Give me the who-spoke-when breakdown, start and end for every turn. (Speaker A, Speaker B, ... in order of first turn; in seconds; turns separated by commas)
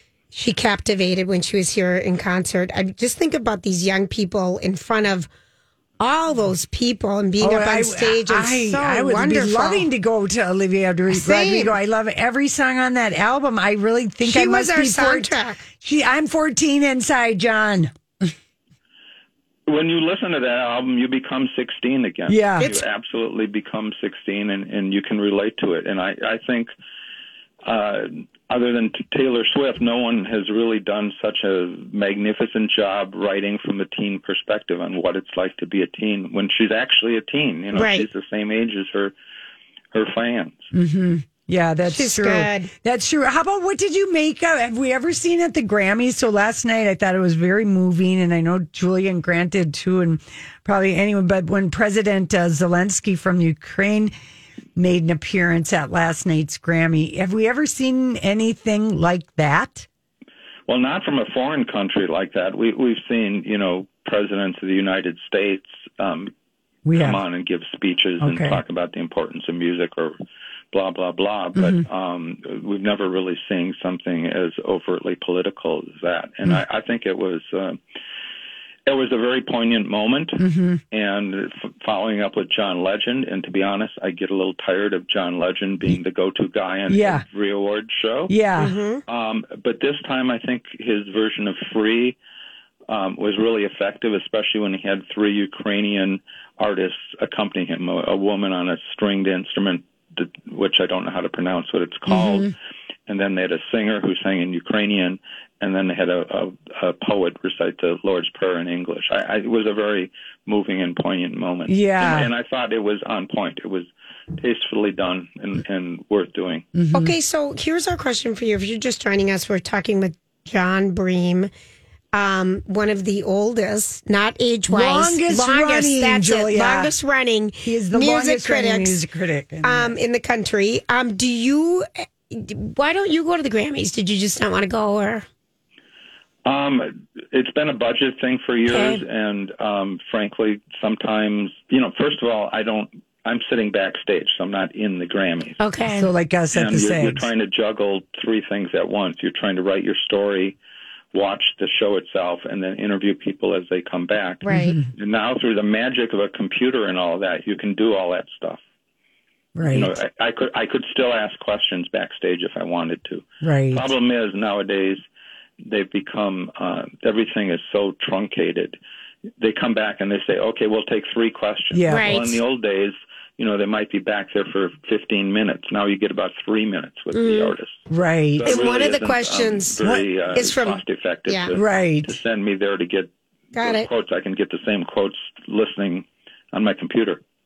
Speaker A: 0.3-5.3, Speaker A: 6.0-9.9, Speaker B: 7.4-18.3, Speaker A: 11.1-11.8, Speaker A: 14.2-15.6, Speaker C: 19.7-26.7, Speaker B: 22.3-22.7, Speaker A: 22.6-22.9, Speaker C: 27.6-39.1, Speaker A: 37.7-38.1, Speaker C: 39.9-40.6, Speaker B: 40.7-54.1, Speaker A: 41.8-42.7, Speaker B: 54.8-59.9, Speaker C: 60.7-66.3, Speaker B: 66.8-67.2, Speaker C: 66.9-70.2, Speaker B: 68.2-68.6, Speaker C: 70.7-77.8, Speaker B: 71.5-71.8, Speaker C: 78.8-88.3, Speaker B: 80.4-80.8, Speaker B: 86.9-87.2, Speaker B: 88.3-88.7, Speaker A: 88.6-89.0, Speaker C: 89.1-92.2, Speaker C: 92.9-102.5, Speaker B: 102.1-102.5, Speaker C: 103.1-116.7, Speaker B: 111.7-112.3, Speaker B: 116.8-117.1, Speaker A: 116.9-121.5, Speaker A: 122.1-129.0, Speaker B: 124.7-126.9, Speaker B: 127.6-130.0, Speaker A: 129.6-135.2, Speaker C: 136.4-145.6, Speaker A: 138.7-139.0, Speaker A: 145.6-146.1, Speaker B: 145.9-147.3, Speaker C: 146.5-150.6, Speaker C: 151.1-158.6, Speaker A: 154.4-154.8, Speaker B: 154.5-154.8, Speaker B: 159.6-159.9, Speaker C: 159.6-165.0, Speaker B: 163.4-163.9, Speaker C: 165.6-168.8, Speaker C: 169.4-177.8, Speaker B: 171.7-172.3, Speaker A: 171.9-172.4, Speaker A: 177.1-177.5, Speaker B: 177.9-178.6, Speaker C: 178.3-187.2, Speaker A: 178.4-181.5, Speaker B: 181.5-182.1, Speaker A: 183.5-183.9